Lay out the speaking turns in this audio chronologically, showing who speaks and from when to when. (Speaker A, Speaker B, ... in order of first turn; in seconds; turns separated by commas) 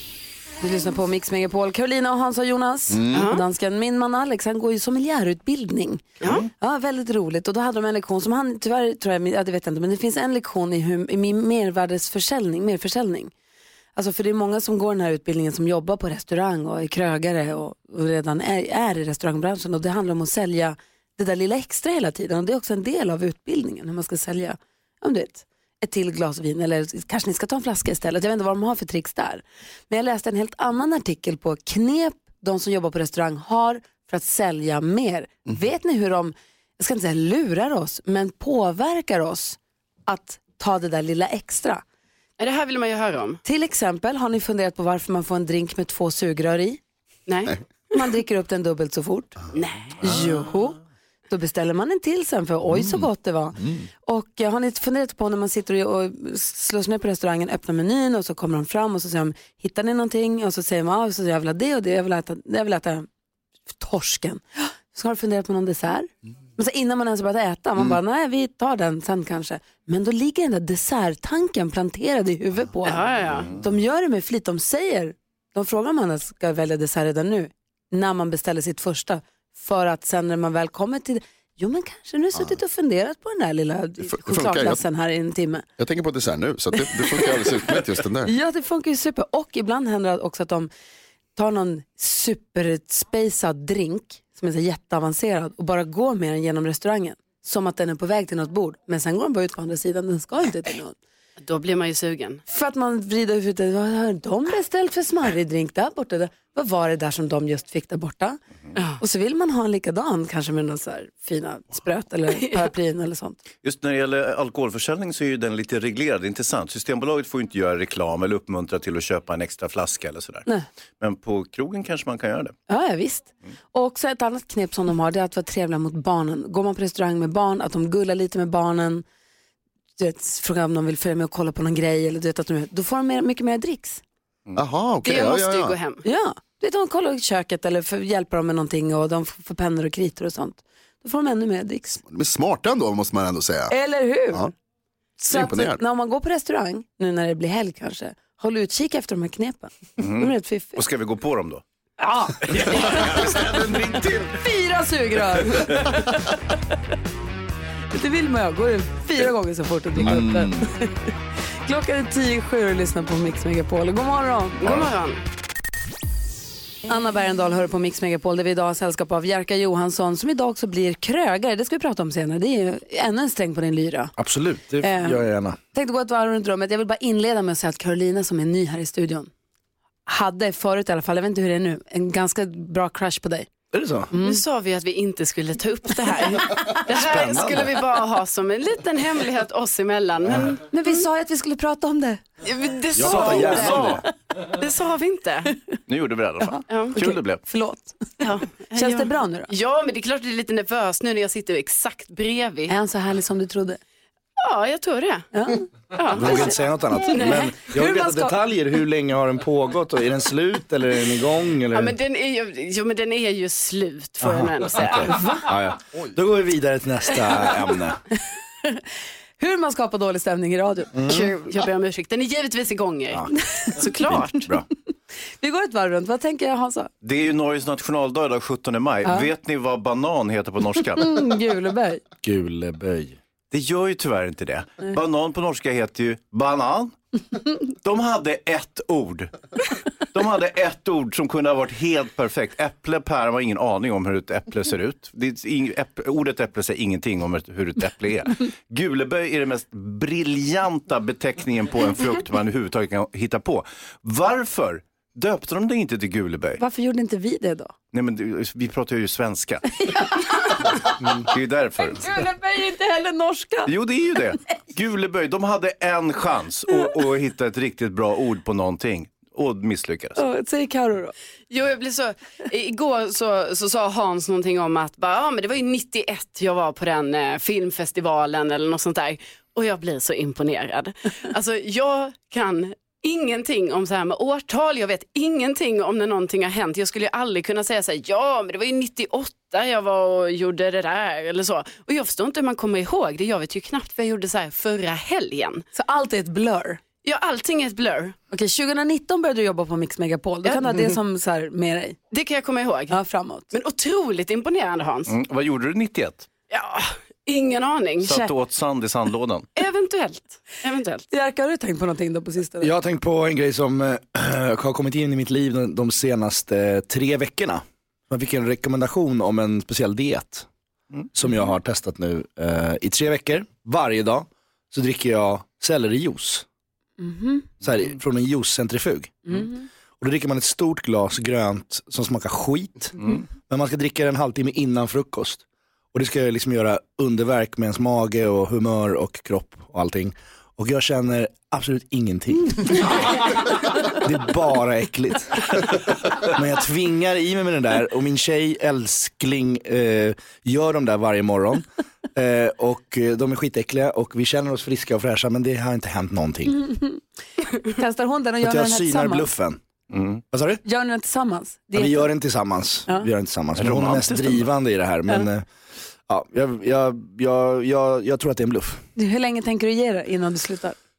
Speaker A: 0.6-13.3, Speaker B: 3.1-3.4, Speaker A: 13.9-41.8, Speaker B: 42.4-43.4, Speaker A: 43.4-46.8, Speaker B: 47.3-47.9, Speaker A: 47.9-49.3, Speaker B: 49.5-50.0, Speaker A: 50.0-63.1, Speaker A: 63.7-85.6, Speaker B: 72.8-73.6, Speaker C: 84.0-84.7, Speaker C: 85.8-88.3, Speaker A: 86.9-87.2, Speaker A: 88.2-90.7, Speaker A: 91.3-101.0, Speaker B: 101.4-102.4, Speaker A: 102.5-108.4, Speaker B: 108.7-109.0, Speaker A: 109.0-113.4, Speaker D: 113.6-120.4, Speaker D: 121.0-122.5, Speaker A: 122.7-129.0, Speaker A: 130.0-134.0, Speaker C: 134.6-135.8, Speaker B: 135.0-136.0, Speaker A: 136.0-142.0, Speaker C: 142.1-143.7, Speaker A: 143.7-144.5, Speaker A: 145.2-150.8, Speaker C: 145.3-145.8, Speaker D: 150.0-151.6, Speaker A: 152.0-153.4, Speaker D: 152.5-154.3, Speaker A: 154.3-156.6, Speaker A: 157.9-161.1, Speaker A: 161.6-164.8, Speaker B: 164.6-165.2, Speaker A: 166.9-174.1, Speaker E: 174.2-175.6, Speaker A: 174.8-179.3, Speaker A: 180.1-183.5, Speaker E: 183.7-184.1, Speaker A: 184.1-184.4, Speaker B: 184.1-191.0, Speaker E: 186.9-187.7, Speaker A: 190.7-192.2, Speaker B: 192.4-195.6, Speaker E: 192.9-194.0, Speaker D: 193.5-194.0, Speaker D: 195.9-197.4, Speaker B: 196.7-197.0, Speaker A: 196.9-199.5, Speaker B: 198.2-202.7, Speaker A: 202.7-203.8, Speaker B: 204.4-205.3, Speaker A: 205.3-205.7, Speaker B: 205.9-206.5, Speaker E: 206.1-211.9, Speaker B: 207.1-207.5, Speaker A: 207.6-208.3, Speaker B: 211.7-215.2, Speaker E: 214.2-218.0, Speaker A: 215.1-215.4, Speaker A: 219.4-221.0, Speaker E: 221.0-221.2, Speaker B: 221.0-224.5, Speaker E: 224.1-224.6, Speaker A: 225.4-226.9, Speaker D: 227.0-231.1, Speaker A: 230.9-232.0, Speaker E: 232.2-233.2, Speaker D: 233.5-236.9, Speaker D: 237.6-256.6, Speaker A: 256.6-257.7, Speaker D: 257.9-260.5, Speaker A: 260.1-260.9, Speaker D: 261.1-262.1, Speaker A: 261.8-263.7, Speaker D: 263.6-270.2, Speaker A: 270.1-271.1, Speaker B: 271.5-295.6, Speaker A: 295.7-296.8, Speaker B: 297.0-298.1, Speaker A: 298.3-302.0, Speaker B: 300.4-300.7, Speaker B: 302.1-303.0, Speaker A: 302.9-303.5, Speaker B: 303.5-305.1, Speaker D: 305.1-306.3, Speaker B: 306.5-308.2, Speaker D: 308.0-309.5, Speaker B: 309.6-311.1, Speaker A: 311.1-312.7, Speaker E: 312.6-320.4, Speaker E: 321.1-326.4, Speaker A: 327.0-327.4, Speaker E: 327.6-329.5, Speaker E: 330.0-335.4, Speaker E: 335.9-345.5, Speaker E: 346.2-356.7, Speaker A: 356.7-357.0, Speaker A: 357.5-359.3, Speaker E: 358.4-359.6, Speaker D: 359.9-360.2, Speaker E: 360.3-360.6, Speaker A: 360.6-362.1, Speaker E: 361.7-365.4, Speaker D: 363.6-364.5, Speaker E: 366.1-368.8, Speaker A: 368.9-370.8